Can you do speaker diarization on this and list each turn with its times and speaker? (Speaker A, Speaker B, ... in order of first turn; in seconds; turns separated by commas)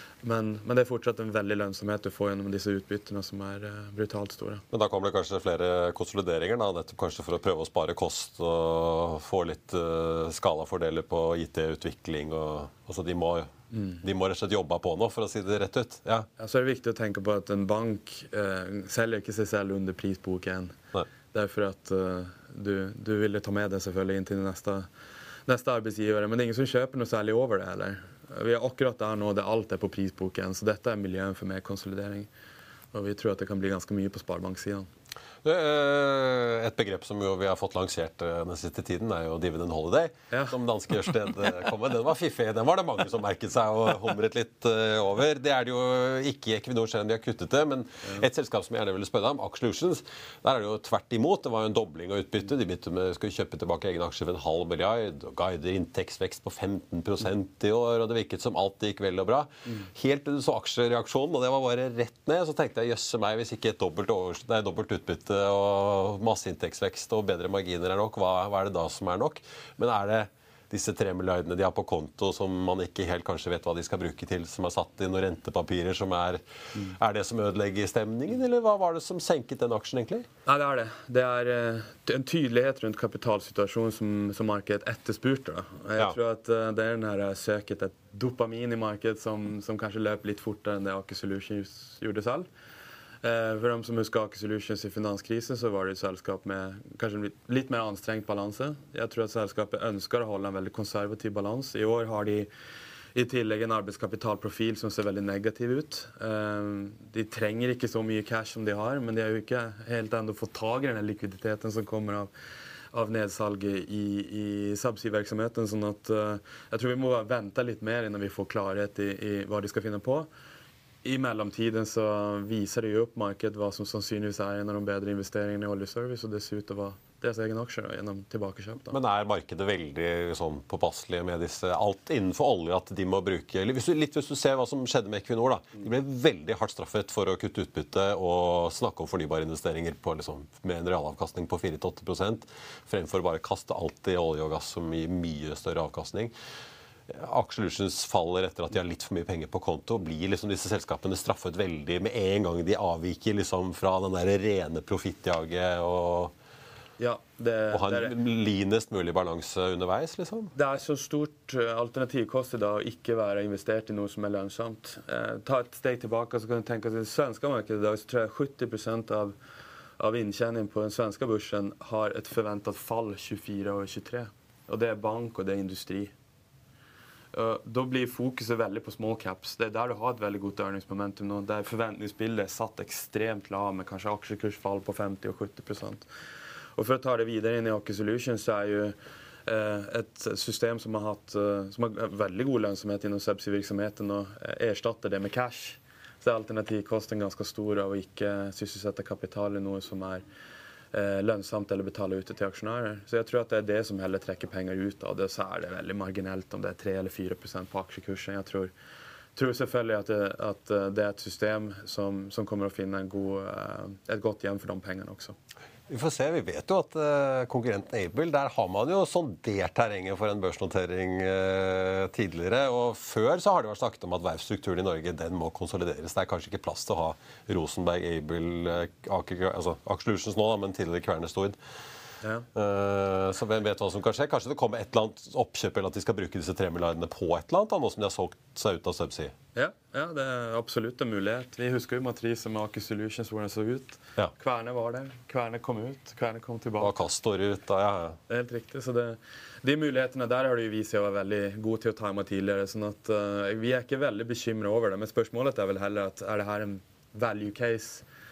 Speaker A: 0.2-4.6, Speaker B: 4.7-16.3, Speaker A: 13.7-14.0, Speaker A: 16.4-20.8, Speaker A: 21.3-24.9, Speaker A: 25.5-32.3, Speaker A: 32.9-34.9, Speaker B: 35.4-80.3, Speaker A: 80.5-92.5, Speaker A: 93.2-102.5, Speaker A: 103.2-112.3, Speaker A: 112.9-120.3, Speaker A: 121.0-129.0, Speaker B: 128.9-146.3, Speaker B: 147.1-156.3, Speaker A: 157.0-158.2, Speaker B: 157.7-160.5, Speaker A: 160.6-169.3, Speaker A: 170.0-176.1, Speaker A: 177.3-186.1, Speaker A: 186.8-188.9, Speaker A: 189.5-200.2, Speaker A: 200.9-208.7, Speaker A: 209.3-215.3, Speaker B: 215.9-231.6, Speaker B: 232.5-239.3, Speaker A: 239.6-246.9, Speaker B: 246.8-248.2, Speaker A: 248.3-258.1